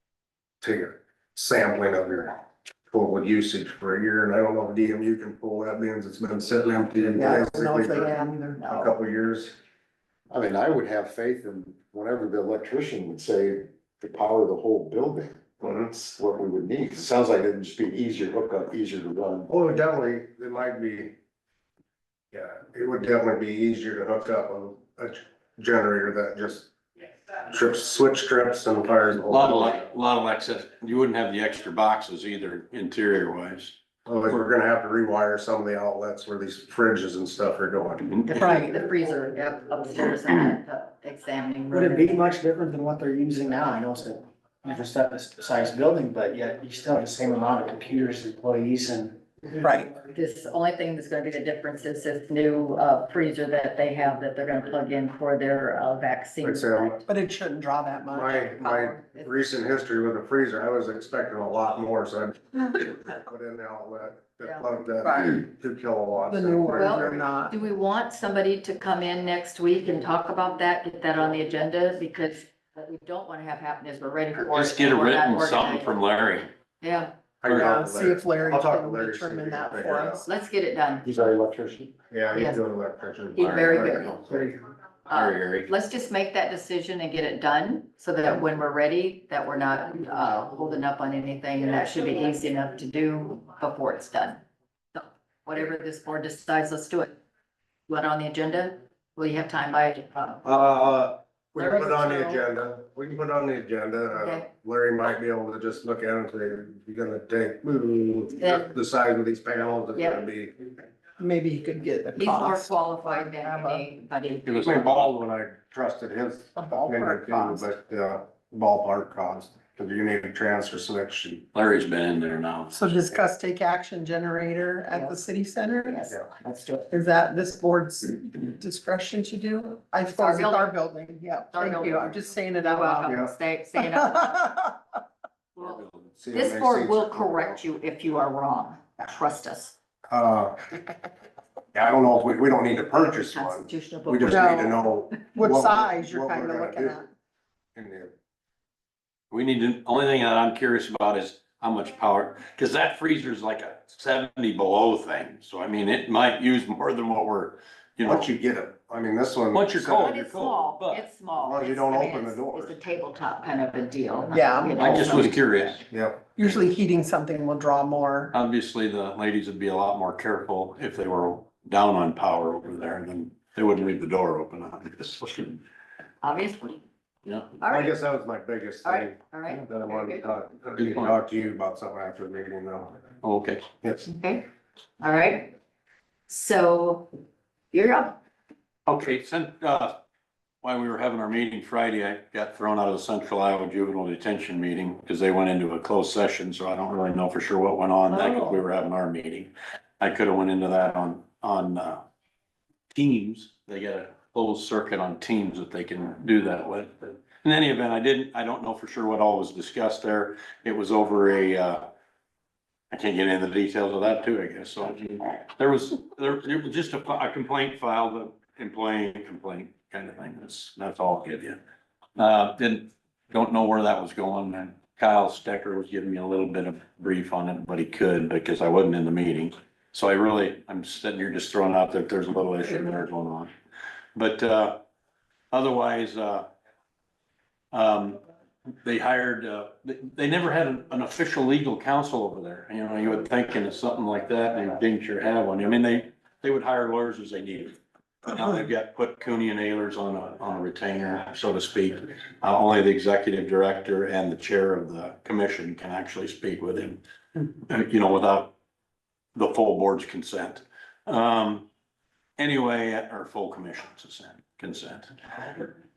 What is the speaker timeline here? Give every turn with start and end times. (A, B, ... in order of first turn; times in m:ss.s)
0:00.6-0:09.6 A
0:07.1-0:08.6 B
0:07.9-0:09.0 C
0:10.3-0:19.5 D
0:19.5-0:21.2 A
0:22.3-0:26.7 A
0:27.4-0:29.8 A
0:29.3-0:33.8 E
0:34.0-0:38.5 A
0:38.3-0:42.3 C
0:38.3-0:38.7 B
0:41.7-0:49.8 F
0:49.6-0:49.9 B
0:50.1-0:57.0 C
0:56.4-0:57.0 A
0:57.1-0:58.9 B
0:58.1-1:07.3 A
0:58.6-0:59.3 C
1:04.4-1:04.7 C
1:06.3-1:07.6 B
1:06.8-1:16.0 C
1:14.4-1:16.5 E
1:16.8-1:17.1 C
1:17.4-1:20.3 A
1:17.5-1:20.3 B
1:20.2-1:21.0 C
1:21.0-1:21.9 D
1:22.1-1:24.6 A
1:22.3-1:22.6 C
1:23.4-1:24.3 E
1:23.4-1:24.2 C
1:25.1-1:34.4 C
1:25.1-1:25.7 E
1:34.9-1:37.2 C
1:37.9-1:40.4 C
1:40.4-1:50.5 A
1:41.6-1:42.4 C
1:44.1-1:44.5 C
1:48.4-1:48.7 C
1:49.9-1:50.2 C
1:51.2-1:53.8 B
1:52.2-1:54.8 C
1:54.4-1:55.1 E
1:54.6-2:01.5 A
1:56.6-1:57.7 B
2:01.5-2:03.0 E
2:02.7-2:06.1 B
2:04.9-2:05.3 C
2:05.8-2:06.9 C
2:06.9-2:13.2 B
2:10.0-2:10.8 C
2:11.5-2:14.5 C
2:13.8-2:14.6 B
2:15.6-2:19.8 C
2:15.6-2:16.1 E
2:16.2-2:17.6 A
2:20.1-2:20.6 A
2:21.7-2:27.0 A
2:22.8-2:25.2 C
2:24.3-2:24.8 B
2:25.3-2:27.1 B
2:27.8-2:28.1 A
2:29.3-2:38.3 E
2:38.0-2:40.3 A
2:39.5-2:41.1 E
2:40.0-2:45.3 C
2:41.3-2:42.8 A
2:44.3-2:45.3 B
2:44.8-2:45.8 E
2:45.0-2:45.4 A
2:45.9-2:46.3 A
2:46.4-2:48.3 B
2:48.3-2:55.6 E
2:56.2-2:56.8 C
2:57.2-2:57.6 E
2:57.6-2:57.9 C
2:57.7-3:03.0 A
2:58.8-3:00.3 C
3:00.8-3:01.2 E
3:03.2-3:03.6 E
3:04.0-3:04.5 C
3:05.0-3:05.6 C
3:06.3-3:07.1 C
3:07.7-3:08.2 C
3:08.8-3:10.0 E
3:10.6-3:22.0 E
3:18.1-3:18.6 C
3:22.9-3:31.8 E
3:32.9-3:41.6 E
3:42.2-3:53.5 E
3:54.2-3:54.8 E
3:55.5-3:56.5 E
3:57.7-3:58.2 E
3:58.8-4:18.5 E
4:19.4-4:21.7 E
4:22.4-4:25.1 E